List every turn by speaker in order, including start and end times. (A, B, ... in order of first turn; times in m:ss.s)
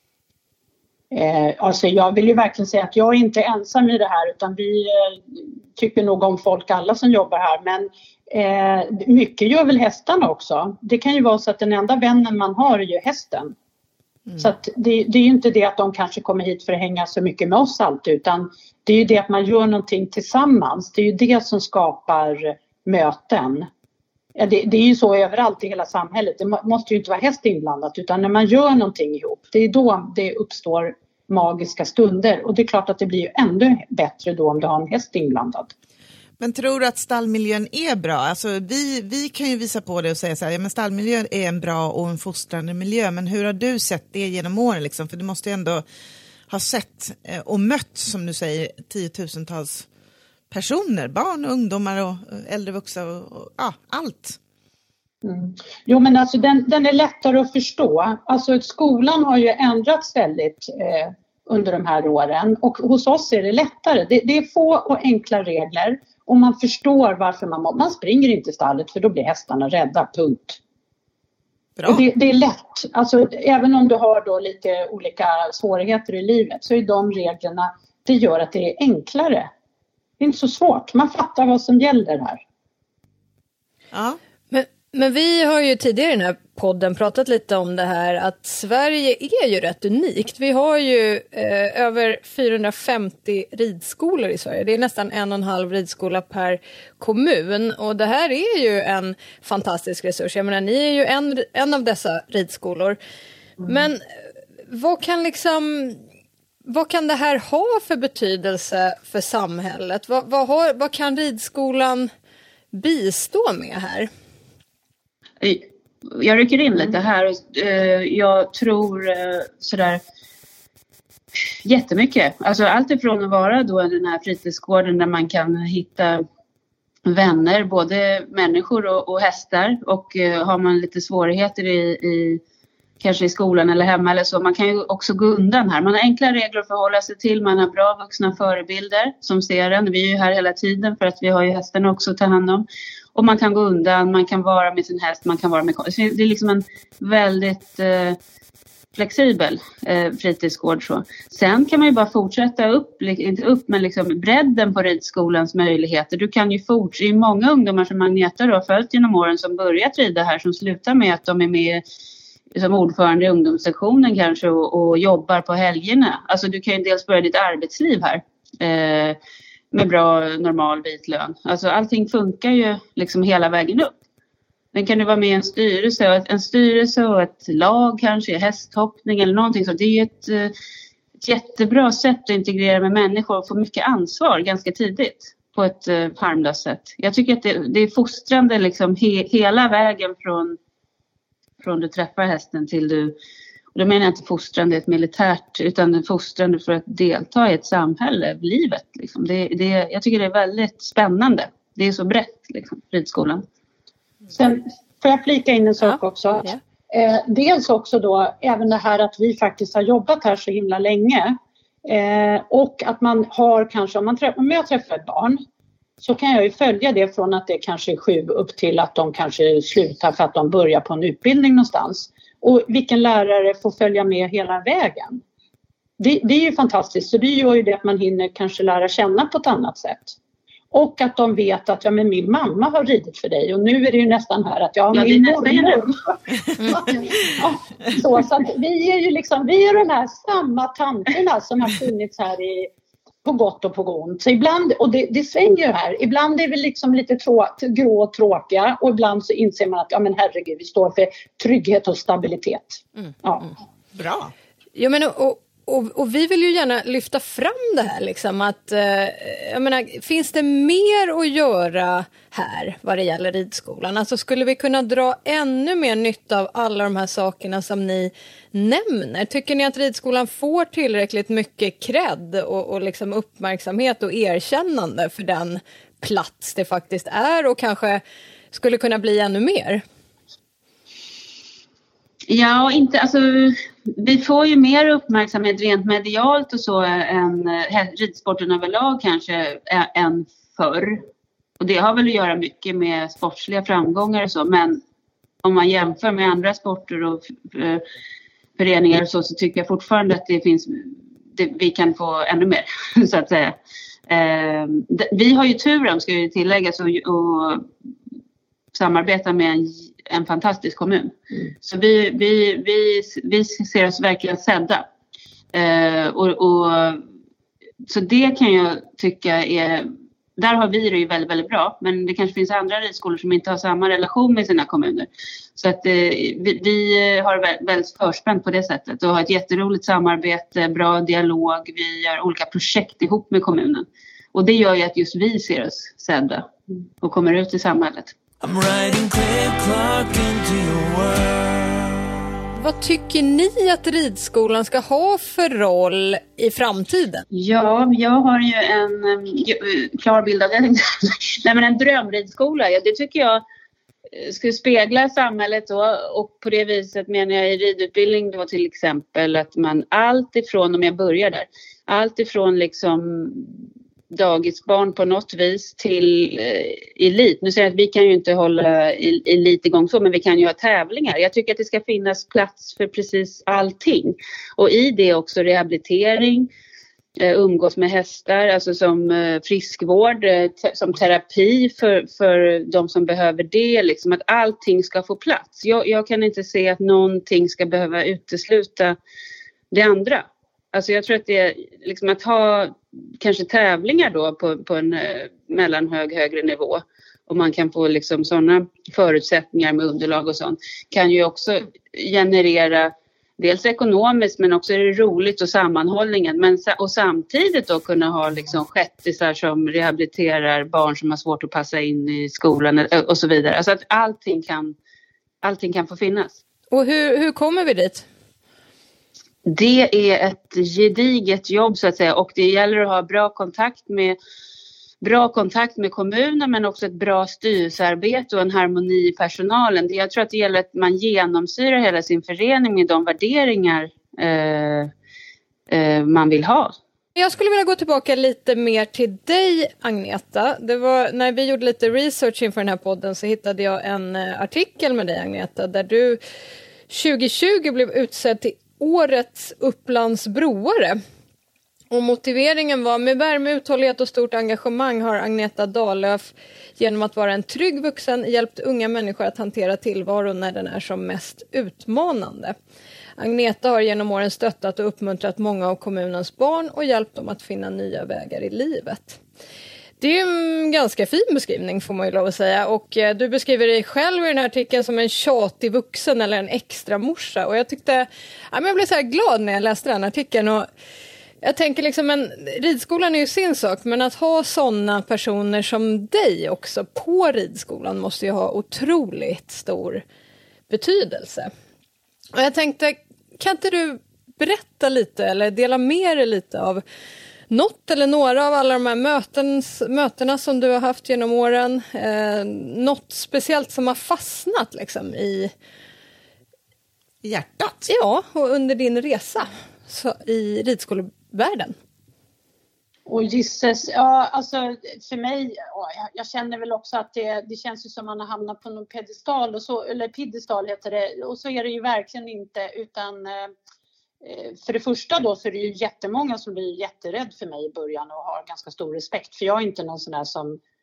0:01.1-0:13.6 A
0:14.4-0:23.7 A
0:24.4-0:35.7 A
0:36.4-0:45.8 B
0:46.5-0:49.9 B
0:50.5-0:54.4 B
0:55.2-1:10.6 A
1:11.8-1:12.0 B
1:11.8-1:19.5 A
1:20.2-1:22.4 A
1:23.9-1:24.2 B
1:24.5-1:43.0 C
1:43.6-1:44.0 C
1:44.7-1:46.0 C
1:46.6-1:52.1 C
1:52.7-1:54.1 C
1:55.4-2:00.0 D
2:01.6-2:06.2 D
2:07.1-2:12.4 D
2:13.0-2:28.2 D
2:29.0-2:41.8 D
2:42.6-2:49.2 D
2:49.7-2:53.9 D
2:54.7-3:00.5 D
3:01.2-3:10.6 D
3:11.6-3:13.2 D
3:13.7-3:23.4 D
3:24.3-3:35.4 A
3:25.9-3:26.6 C
3:36.0-3:45.2 A
3:46.0-3:50.2 A
3:50.7-4:02.7 A
3:54.9-3:55.9 D
4:03.2-4:13.5 A
4:13.9-4:14.3 B
4:14.8-4:39.8 C
4:42.3-4:51.0 D
4:51.6-4:54.8 D
4:55.4-4:57.8 D
4:58.6-5:03.5 D
5:04.1-5:07.7 D
5:08.7-5:14.9 D
5:15.5-5:17.0 D
5:17.8-5:36.5 D
5:37.0-5:38.2 D
5:38.4-5:42.2 E
5:42.6-5:47.2 C
5:47.3-5:53.4 D
5:54.1-6:16.5 D
6:17.2-6:29.0 D
6:29.7-6:54.8 D
6:55.4-6:56.4 D
6:56.7-6:58.0 C
6:59.4-7:04.2 D
7:05.0-7:14.9 D
7:15.7-7:16.7 D
7:17.2-7:26.2 C
7:26.9-7:31.0 C
7:31.9-7:42.5 C
7:43.2-7:49.2 C
7:50.0-8:00.7 C
8:01.4-8:10.0 C
8:10.7-8:11.5 C
8:12.3-8:16.8 C
8:17.5-8:25.5 C
8:27.2-8:27.9 B
8:27.9-8:31.8 C
8:33.1-8:43.5 A
8:44.2-8:50.6 A